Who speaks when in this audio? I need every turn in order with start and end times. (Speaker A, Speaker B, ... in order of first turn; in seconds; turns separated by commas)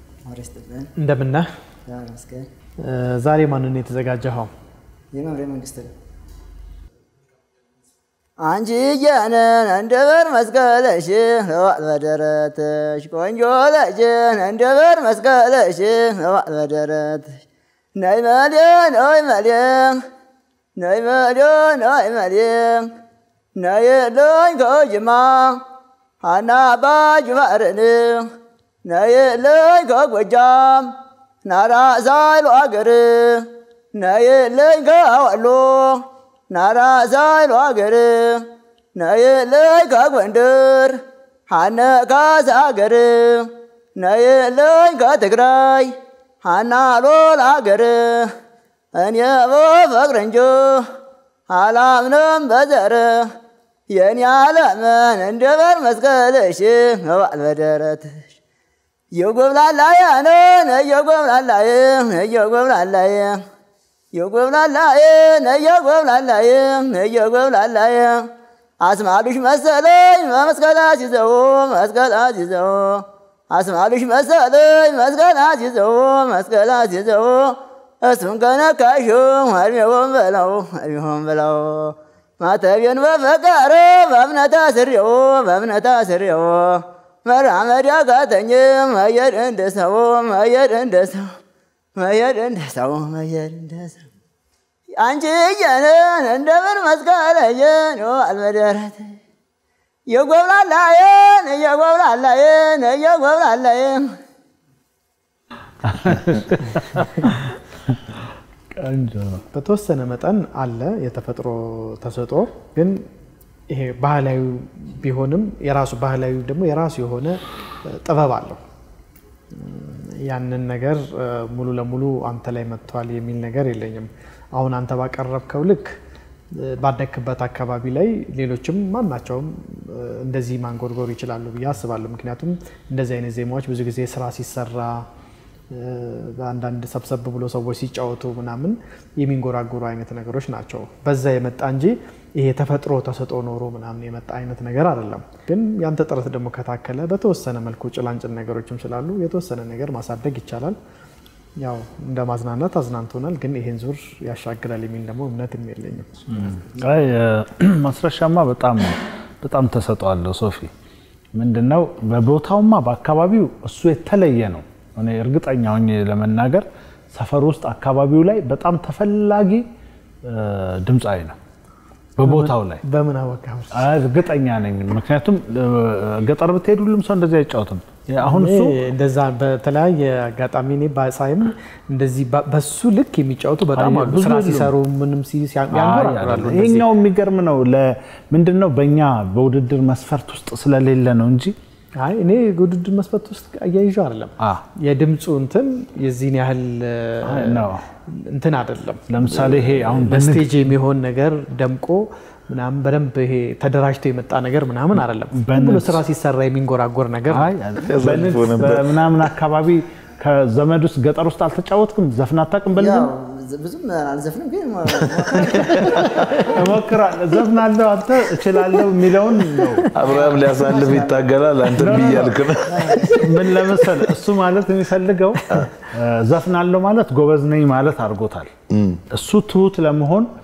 Speaker A: 0.2-0.9, Speaker B: 1.0-1.5, Speaker A: 1.9-2.5, Speaker B: 2.8-4.5, Speaker A: 5.1-5.9, Speaker A: 8.4-17.4, Speaker A: 18.0-20.0, Speaker A: 20.8-22.9, Speaker A: 23.6-25.6, Speaker A: 26.2-28.3, Speaker A: 28.9-30.9, Speaker A: 31.4-41.0, Speaker A: 41.5-48.3, Speaker A: 48.9-50.9, Speaker A: 51.5-53.3, Speaker A: 53.9-58.2, Speaker A: 59.1-63.4, Speaker A: 64.1-68.3, Speaker A: 68.8-91.3, Speaker A: 92.0-94.0, Speaker A: 95.0-99.1, Speaker A: 100.1-104.1, Speaker C: 105.8-108.2, Speaker C: 108.7-109.4, Speaker B: 109.5-113.0, Speaker B: 113.7-118.6, Speaker B: 119.5-126.0, Speaker B: 126.5-135.1, Speaker B: 135.7-150.8, Speaker B: 151.6-156.7, Speaker C: 156.7-160.7, Speaker C: 161.3-169.7, Speaker C: 170.2-171.4, Speaker C: 172.2-172.8, Speaker B: 172.2-173.9, Speaker C: 173.7-178.8, Speaker B: 178.2-186.9, Speaker C: 183.8-184.7, Speaker C: 185.7-191.6, Speaker B: 192.0-207.5, Speaker C: 197.2-197.8, Speaker C: 199.1-200.7, Speaker C: 205.3-206.0, Speaker C: 207.3-213.1, Speaker D: 207.8-209.3, Speaker A: 212.7-216.8, Speaker D: 215.6-216.1, Speaker C: 216.3-219.9, Speaker D: 219.9-223.2, Speaker A: 220.0-221.4, Speaker C: 221.8-228.5, Speaker A: 221.9-223.4, Speaker D: 228.7-229.0, Speaker C: 229.1-230.3